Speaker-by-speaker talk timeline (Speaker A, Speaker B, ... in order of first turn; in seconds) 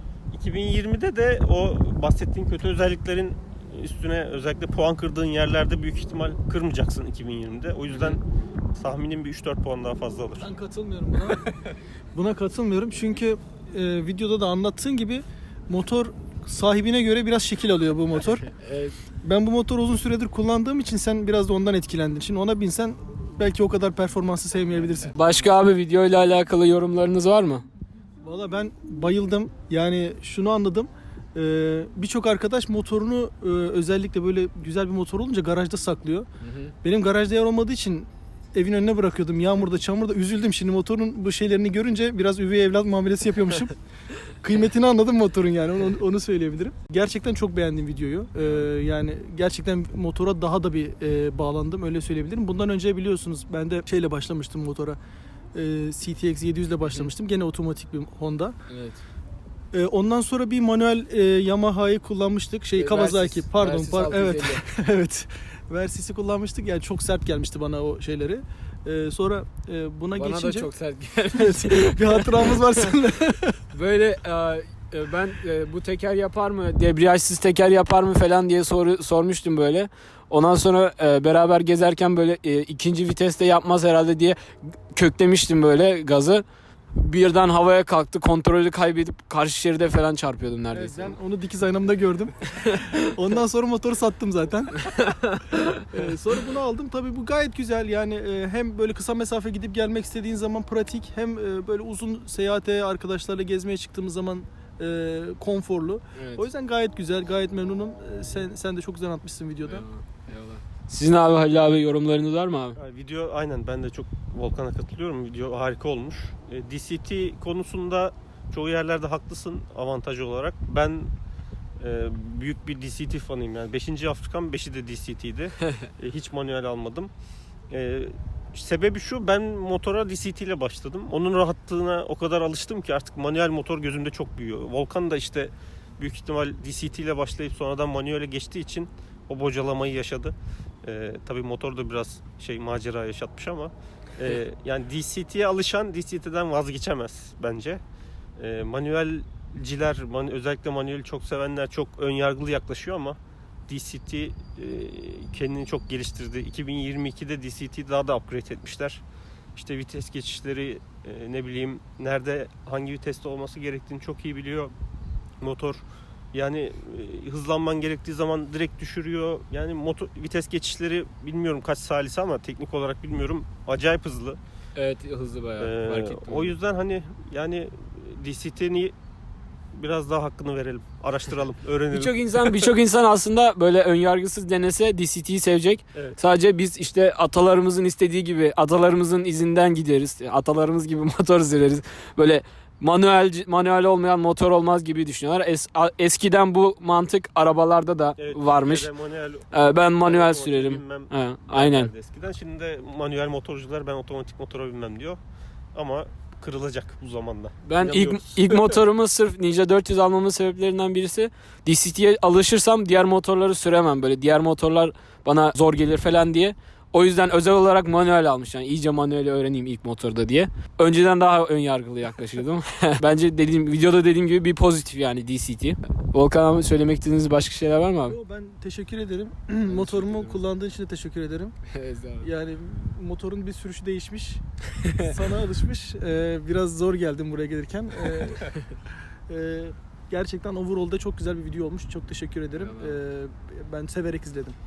Speaker A: 0.3-8.2, 8.8-10.5, 112.8-121.1, 121.8-127.1, 127.7-147.8, 148.4-159.0, 159.6-164.7, 165.4-174.4, 175.6-178.9, 179.7-182.7, 198.2-205.2, 205.7-208.8
Speaker B: 10.4-11.5, 12.1-18.5, 19.2-25.1, 28.2-36.3, 36.8-43.7, 44.4-55.0, 55.5-58.5, 59.7-70.7, 71.3-73.6, 90.7-94.8, 95.9-109.8, 228.1-231.5, 232.2-234.4, 235.0-238.4, 239.3-244.6
Speaker C: 18.5-18.9, 25.1-27.6, 36.4-36.7, 58.7-59.0, 62.8-64.7, 70.2-72.9, 73.7-84.4, 84.9-86.4, 87.0-91.2, 94.8-95.8, 106.2-106.5, 109.6-112.8, 174.8-176.5, 181.9-198.9, 199.5-201.9, 207.6-228.2, 229.7-230.4, 231.7-232.3, 234.8-235.1, 242.5-243.0